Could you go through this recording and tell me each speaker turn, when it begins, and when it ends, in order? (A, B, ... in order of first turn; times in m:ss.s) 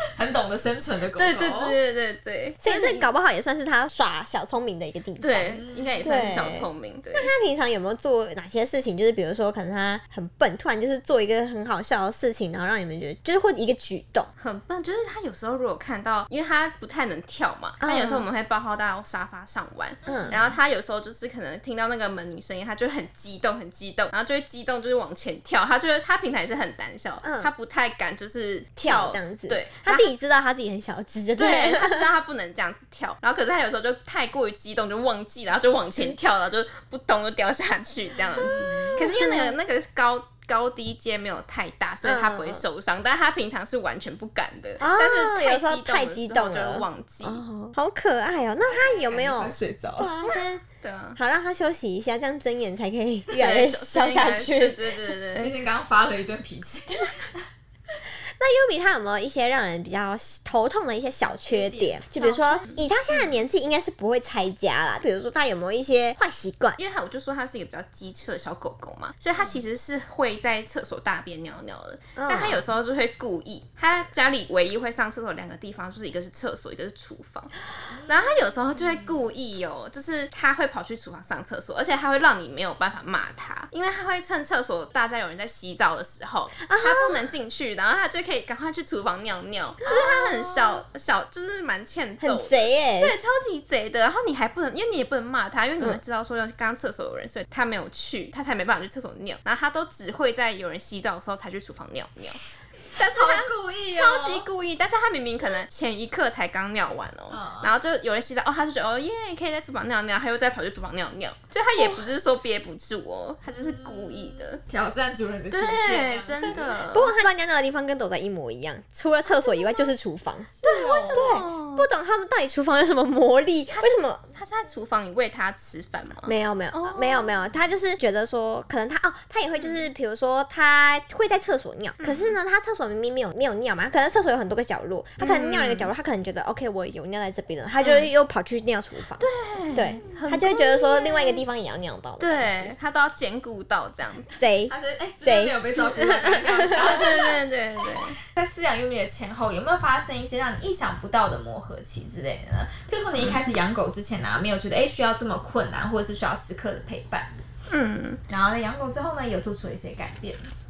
0:00.2-0:01.8 A
0:01.2-0:03.1 B
0:02.6-0:14.3 C
0:05.2-0:07.3 B
0:05.5-0:06.4 A
0:14.4-0:30.1 B
0:17.8-0:18.3 C
0:20.1-0:20.6 A
0:20.1-0:20.4 C
0:27.2-0:27.5 C
0:28.8-0:32.1 C
0:31.4-0:47.4 B
0:38.4-0:39.0 A
0:39.0-0:39.6 C
0:42.0-0:42.6 C
0:44.8-0:50.6 C
0:48.6-0:50.2 A
0:50.3-0:51.2 B
0:51.2-0:54.9 C
0:53.3-0:55.5 B
0:55.4-0:57.4 A
0:58.4-1:06.8 C
1:01.4-1:02.6 A
1:02.5-1:02.8 B
1:06.8-1:17.5 B
1:12.2-1:12.6 C
1:17.9-1:19.1 A
1:18.1-1:42.4 B
1:26.7-1:27.2 C
1:29.8-1:30.8 C
1:32.2-1:33.2 C
1:42.9-1:54.6 B
1:43.0-1:44.5 A
1:47.3-1:47.7 A
1:53.5-1:56.7 A
1:55.5-1:57.2 B
1:56.9-2:00.5 C
2:00.5-2:01.4 A
2:00.6-2:01.9 B
2:01.1-2:04.2 C
2:03.7-2:07.4 B
2:06.3-2:22.8 C
2:09.6-2:09.9 B
2:12.0-2:12.4 B
2:15.2-2:15.9 B
2:17.8-2:18.1 B
2:19.2-2:21.4 B
2:22.2-2:24.3 B
2:24.4-2:27.0 C
2:24.7-2:27.4 A
2:26.4-2:28.2 B
2:28.4-2:37.3 A
2:33.2-2:33.5 B
2:37.7-2:38.2 B
2:38.3-2:40.4 A